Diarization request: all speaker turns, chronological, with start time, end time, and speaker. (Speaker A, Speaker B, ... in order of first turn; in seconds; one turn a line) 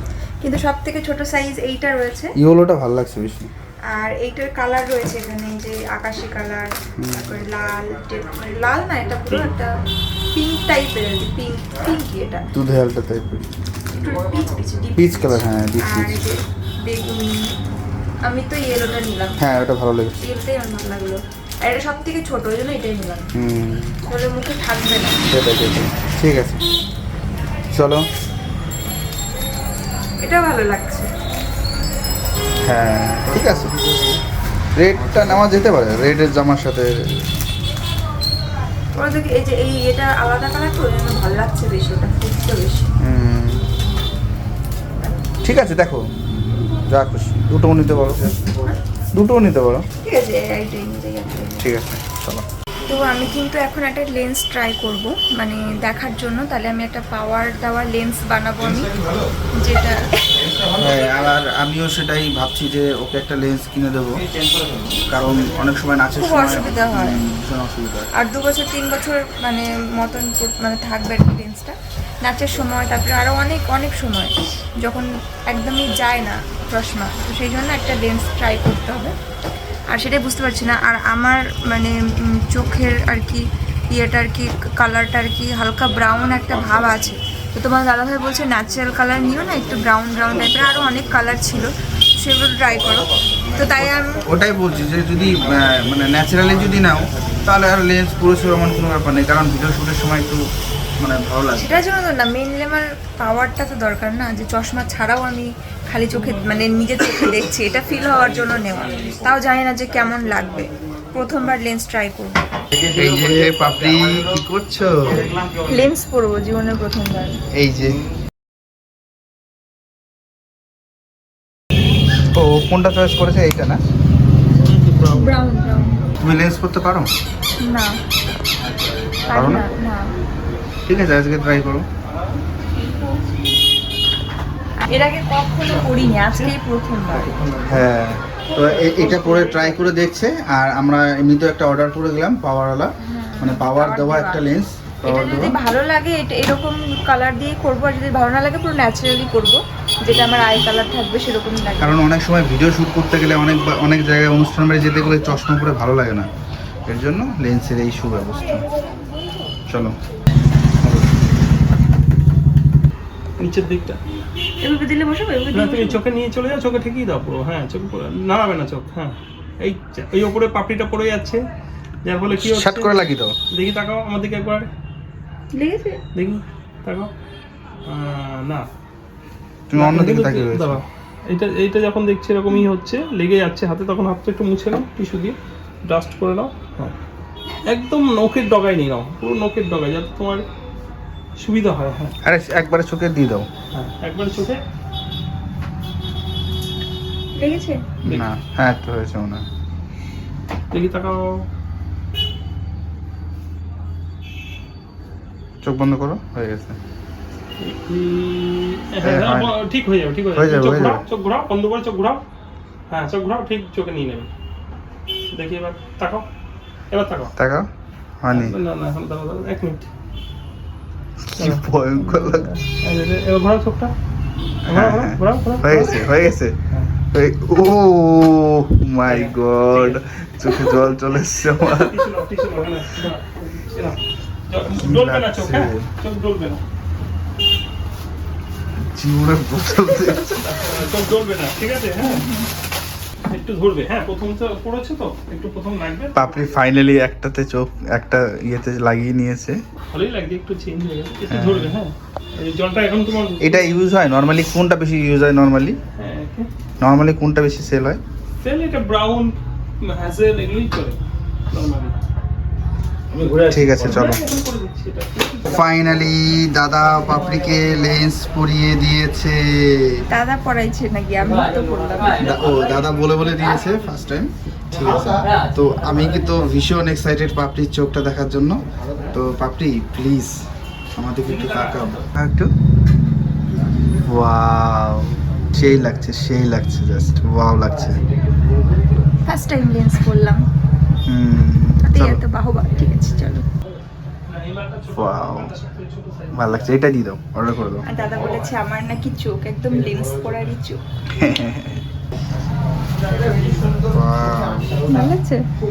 Speaker A: 0.4-2.3
Speaker B: 2.4-3.5
Speaker A: 3.9-9.7
Speaker B: 7.0-7.4
Speaker A: 10.3-12.5
Speaker B: 12.5-13.5
Speaker A: 13.9-17.5
Speaker B: 14.9-16.2
Speaker A: 18.2-19.4
Speaker B: 19.4-20.1
Speaker A: 20.2-23.3
Speaker B: 23.3-24.0
Speaker A: 24.1-25.2
Speaker B: 25.3-26.6
Speaker B: 27.7-28.0
Speaker A: 30.2-31.1
Speaker B: 32.6-33.7
Speaker B: 34.8-37.0
Speaker A: 38.9-42.9
Speaker B: 43.0-43.6
Speaker B: 45.4-46.1
Speaker B: 46.9-48.5
Speaker B: 49.1-49.9
Speaker A: 50.0-51.7
Speaker B: 51.6-52.5
Speaker A: 52.9-58.9
Speaker B: 58.9-59.2
Speaker A: 59.5-60.5
Speaker B: 60.6-64.3
Speaker B: 65.0-68.1
Speaker A: 66.2-67.2
Speaker A: 68.1-79.1
Speaker A: 79.9-94.2
Speaker B: 94.2-100.4
Speaker B: 101.0-101.8
Speaker A: 101.5-112.3
Speaker B: 112.7-115.3
Speaker A: 115.6-117.4
Speaker B: 117.5-118.0
Speaker B: 122.3-123.8
Speaker C: 124.5-125.4
Speaker A: 125.1-126.0
Speaker B: 126.2-127.1
Speaker A: 127.6-127.9
Speaker A: 129.3-130.1
Speaker B: 129.3-129.7
Speaker B: 130.8-131.9
Speaker C: 132.1-133.2
Speaker A: 134.8-137.3
Speaker C: 136.2-136.5
Speaker C: 137.1-137.8
Speaker B: 137.7-145.6
Speaker C: 138.5-139.9
Speaker A: 143.0-144.4
Speaker A: 145.0-152.0
Speaker B: 150.1-150.6
Speaker B: 151.8-156.3
Speaker B: 156.9-158.6
Speaker B: 159.7-159.9
Speaker B: 160.8-161.1
Speaker C: 163.4-164.0
Speaker A: 164.6-166.0
Speaker C: 165.5-171.4
Speaker C: 172.0-172.9
Speaker B: 172.3-173.3
Speaker C: 173.5-174.7
Speaker A: 175.5-176.0
Speaker C: 176.2-177.1
Speaker C: 177.9-178.7
Speaker B: 179.7-180.8
Speaker C: 179.8-186.9
Speaker C: 187.7-190.4
Speaker C: 191.4-192.1
Speaker B: 192.2-193.5
Speaker C: 193.7-194.6
Speaker A: 197.4-197.8
Speaker B: 198.0-199.4
Speaker C: 200.7-201.4
Speaker B: 205.6-206.8
Speaker C: 207.6-212.2
Speaker B: 209.0-209.5
Speaker B: 210.3-211.0
Speaker C: 212.9-214.3
Speaker C: 215.3-216.2
Speaker C: 216.9-217.3
Speaker B: 217.4-217.7
Speaker B: 218.2-218.5
Speaker C: 218.3-219.9
Speaker B: 221.2-222.5
Speaker C: 221.4-223.9
Speaker B: 224.6-226.6
Speaker C: 224.7-226.2
Speaker B: 227.1-232.1
Speaker C: 229.1-230.8
Speaker C: 231.6-236.6
Speaker B: 234.8-235.9
Speaker B: 238.8-240.4
Speaker C: 240.4-242.2
Speaker A: 242.0-242.5
Speaker C: 243.3-246.3
Speaker B: 246.1-249.6
Speaker C: 249.9-253.8
Speaker B: 251.3-251.8
Speaker B: 253.4-255.8
Speaker C: 256.0-256.5
Speaker B: 256.8-258.0
Speaker C: 258.4-262.0
Speaker B: 263.4-264.3
Speaker C: 263.8-265.6
Speaker B: 265.5-270.0
Speaker A: 270.1-272.5
Speaker B: 272.1-278.6
Speaker B: 279.1-280.4
Speaker B: 280.9-282.5
Speaker C: 281.2-282.1
Speaker B: 284.0-288.0
Speaker A: 289.2-290.4
Speaker B: 291.1-292.2
Speaker A: 291.8-293.4
Speaker C: 294.3-296.7
Speaker B: 294.9-295.5
Speaker B: 296.3-297.8
Speaker A: 297.8-300.8
Speaker B: 301.1-301.8
Speaker C: 303.0-303.9
Speaker B: 303.9-304.8
Speaker A: 304.9-305.4